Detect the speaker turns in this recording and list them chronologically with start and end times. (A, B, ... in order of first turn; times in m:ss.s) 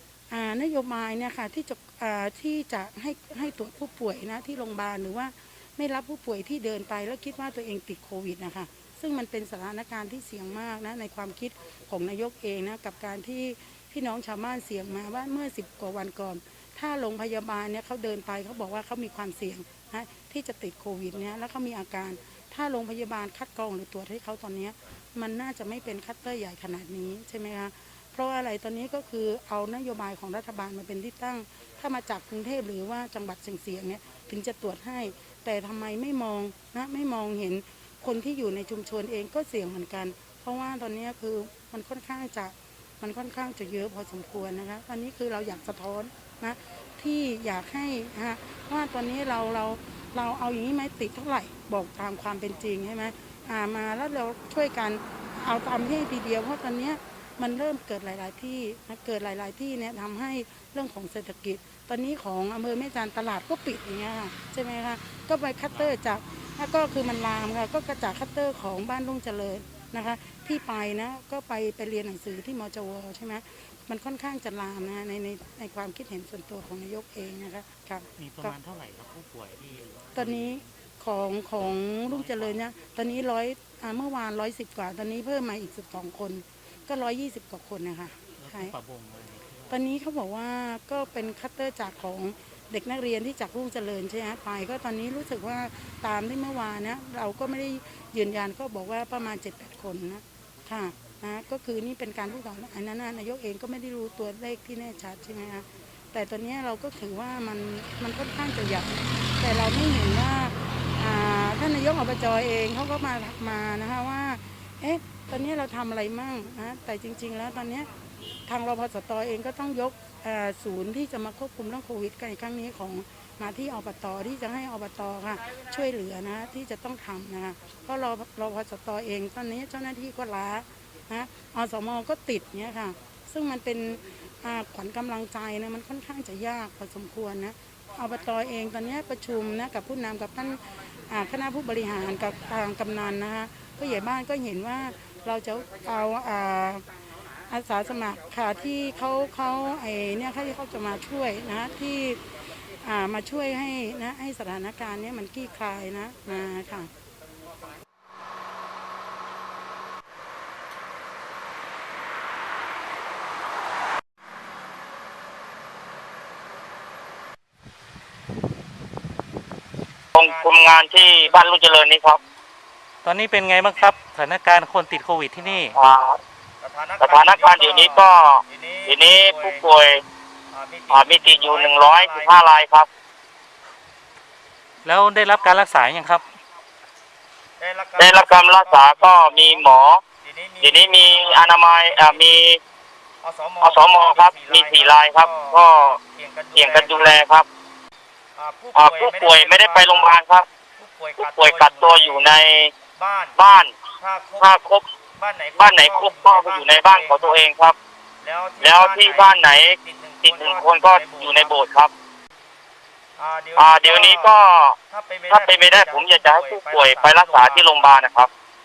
0:00.3-1:18.6 A
1:18.2-1:20.6 B
1:20.1-1:28.8 A
1:22.1-1:22.6 B
1:28.4-1:29.7 B
1:29.7-1:57.9 A
1:58.5-2:26.9 A
2:27.4-2:36.9 A
2:50.2-2:51.5 C
2:50.2-2:52.2 D
2:53.0-2:55.8 B
2:55.7-2:56.2 D
2:56.6-2:59.6 C
2:57.0-3:00.0 D
3:00.5-3:02.4 C
3:00.9-3:02.9 D
3:04.8-3:06.2 B
3:07.6-3:09.7 C
3:08.0-3:10.0 D
3:10.2-3:12.3 C
3:10.6-3:12.6 D
3:13.2-3:17.2 C
3:13.6-3:16.0 D
3:16.6-3:17.4 D
3:18.4-3:20.1 C
3:18.7-3:20.4 D
3:20.8-3:22.4 C
3:21.2-3:22.7 D
3:23.0-3:23.4 C
3:23.4-3:23.7 D
3:24.0-3:24.6 C
3:24.4-3:24.8 D
3:25.2-3:27.5 C
3:25.6-3:27.7 D
3:28.2-3:31.5 C
3:28.6-3:31.9 D
3:33.2-3:34.3 C
3:33.6-3:34.8 D
3:34.9-3:37.9 C
3:35.3-3:38.3 D